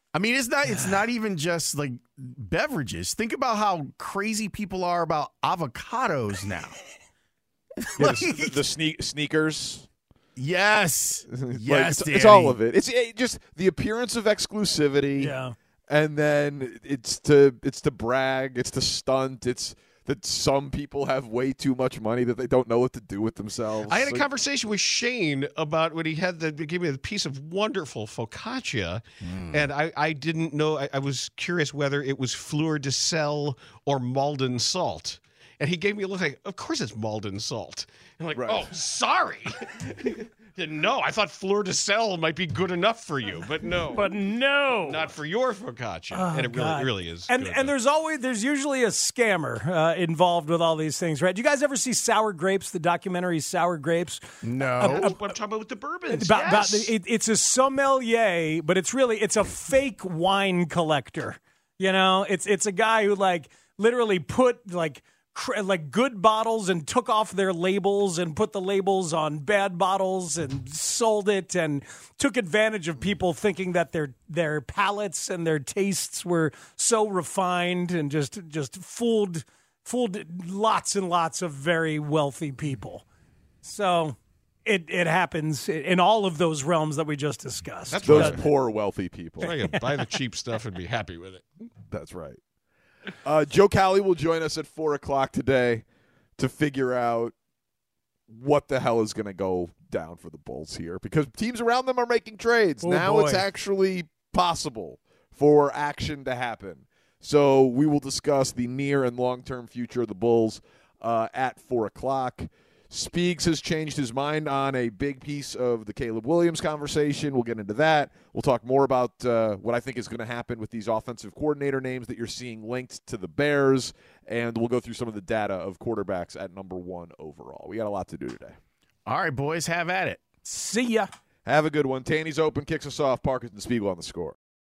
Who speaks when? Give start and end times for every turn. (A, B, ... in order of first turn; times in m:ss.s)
0:00.1-0:06.8 A
0:07.8-0:08.6 A
0:08.0-0:09.9 B
0:10.4-0:12.6 A
0:11.3-0:15.4 B
0:15.2-0:15.5 C
0:15.9-0:24.2 B
0:23.9-0:44.1 D
0:29.2-0:29.7 A
0:38.4-0:38.6 B
0:43.9-0:45.1 C
0:44.8-0:47.7 D
0:46.1-0:54.2 C
0:54.4-0:55.1 A
0:54.8-0:55.2 C
0:54.8-0:56.9 D
0:56.1-1:23.0 C
1:23.6-1:28.5 C
1:27.9-1:28.5 D
1:28.0-1:29.5 B
1:29.4-1:31.5 D
1:29.4-1:29.8 C
1:31.9-1:32.4 B
1:33.2-1:35.8 B
1:36.4-1:37.3 B
1:38.3-2:08.6 B
1:42.8-1:43.4 C
2:09.1-2:10.2 A
2:10.5-2:11.1 C
2:11.5-2:14.4 B